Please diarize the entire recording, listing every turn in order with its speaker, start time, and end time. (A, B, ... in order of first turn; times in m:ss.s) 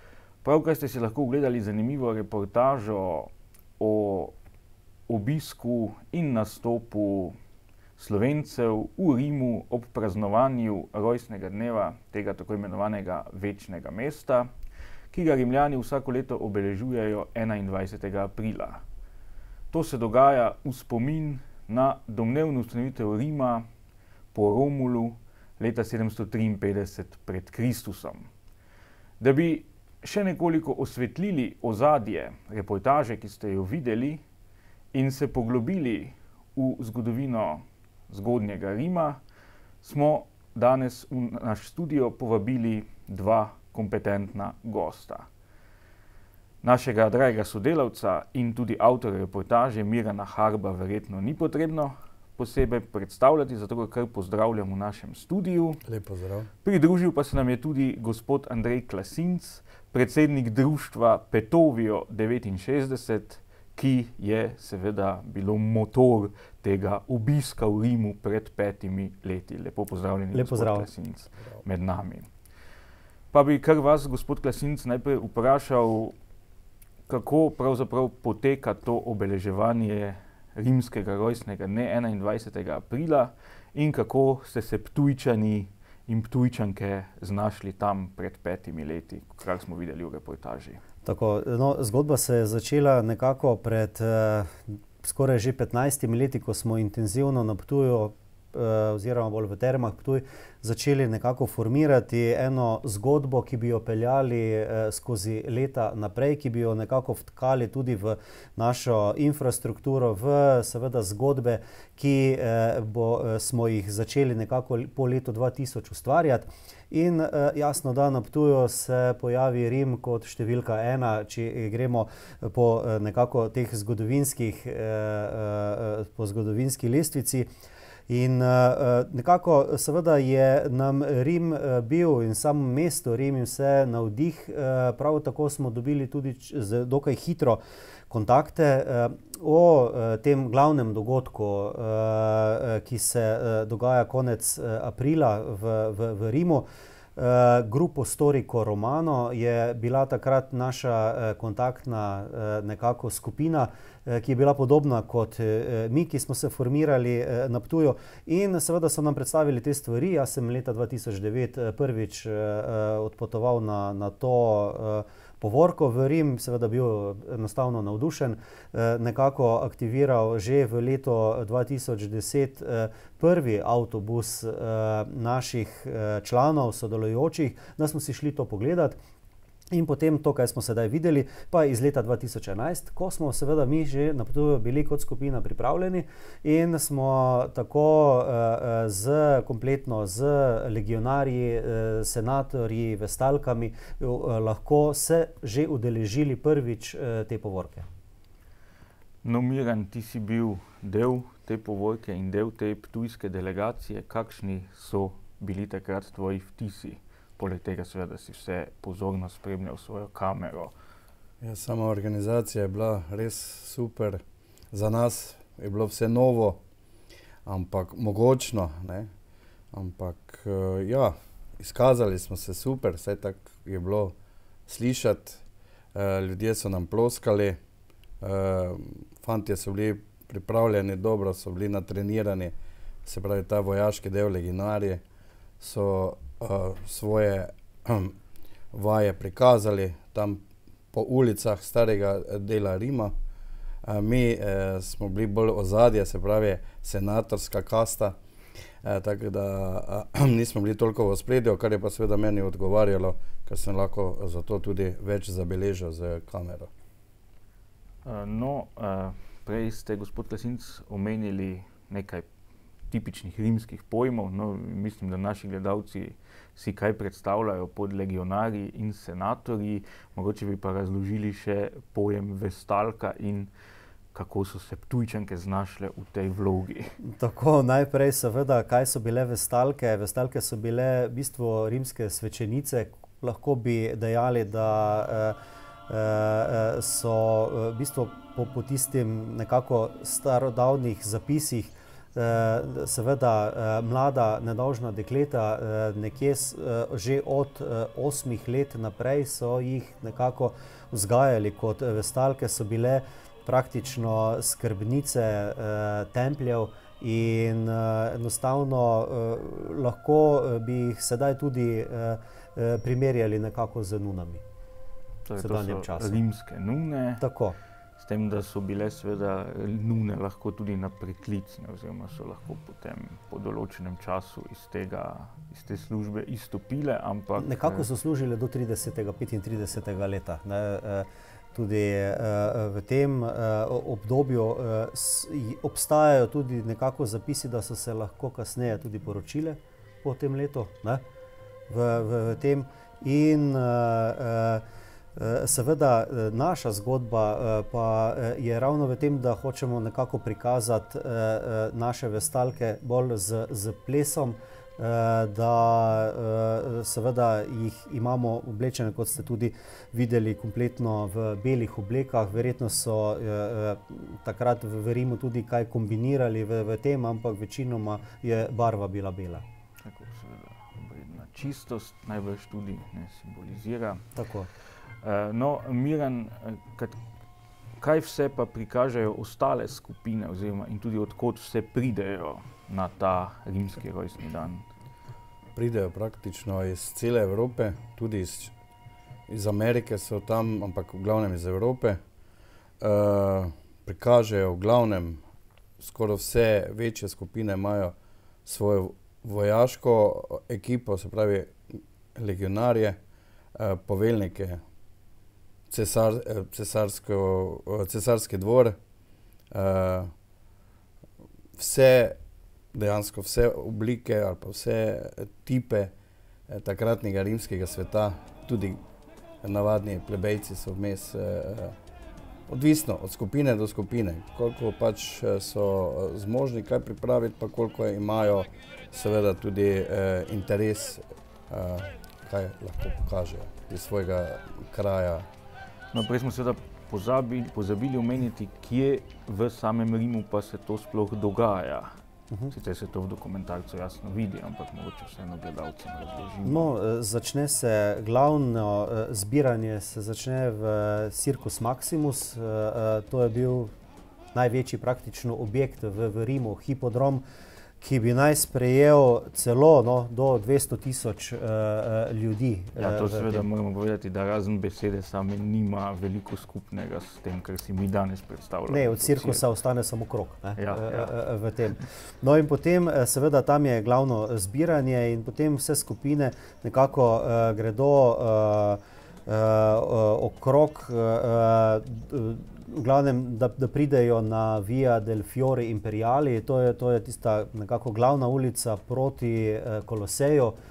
0:00.4-0:04.3 A
0:05.1-0:07.4 A
0:08.0-0:14.5 A
0:15.1-0:18.8 A
0:19.7-0:23.6 A
0:24.3-0:28.3 A
0:29.2-0:34.2 A
0:34.9-0:39.2 A
0:39.8-0:45.3 A
0:46.6-0:55.8 A
0:55.8-0:56.5 B
0:56.6-1:12.3 A
1:10.3-1:10.9 C
1:13.3-1:16.1 A
1:17.1-1:30.8 A
1:31.0-2:07.5 C
2:08.1-2:59.0 C
2:59.7-3:17.9 C
3:19.2-3:30.7 A
3:31.4-3:36.6 B
3:37.4-3:39.1 B
3:39.7-3:44.1 B
3:44.7-3:45.4 B
3:45.9-3:47.6 B
3:48.2-3:52.5 B
3:53.0-3:55.0 B
3:55.6-3:58.1 B
3:58.7-4:03.1 B
4:03.8-4:08.2 B
4:08.8-4:16.7 B
4:18.0-4:22.3 A
4:22.9-4:33.5 A
4:34.1-4:37.0 A
4:37.0-4:45.4 C
4:45.9-5:14.4 C
5:15.2-5:17.2 A
5:15.4-5:16.2 C
5:17.2-5:17.6 C
5:18.0-5:27.9 A
5:27.4-5:41.0 C
5:41.7-5:44.6 C
5:45.2-6:09.4 C
6:09.8-6:14.1 A
6:14.1-6:14.5 C
6:15.0-6:17.0 A
6:17.8-6:24.6 A
6:25.6-6:28.5 B
6:29.3-6:32.0 B
6:32.8-6:35.2 B
6:35.8-6:37.9 B
6:38.4-6:43.0 B
6:43.6-6:44.6 B
6:45.7-6:48.8 B
6:49.5-6:50.1 B
6:51.6-6:52.2 B
6:52.7-6:55.9 B
6:56.5-6:58.8 B
6:59.4-7:01.7 B
7:02.5-7:15.3 B
7:15.9-7:21.9 A
7:22.5-7:26.7 A
7:26.4-7:33.7 C
7:34.3-7:37.2 C
7:37.8-7:43.5 C
7:42.8-7:49.4 A
7:48.7-8:10.6 C
7:50.6-7:51.1 A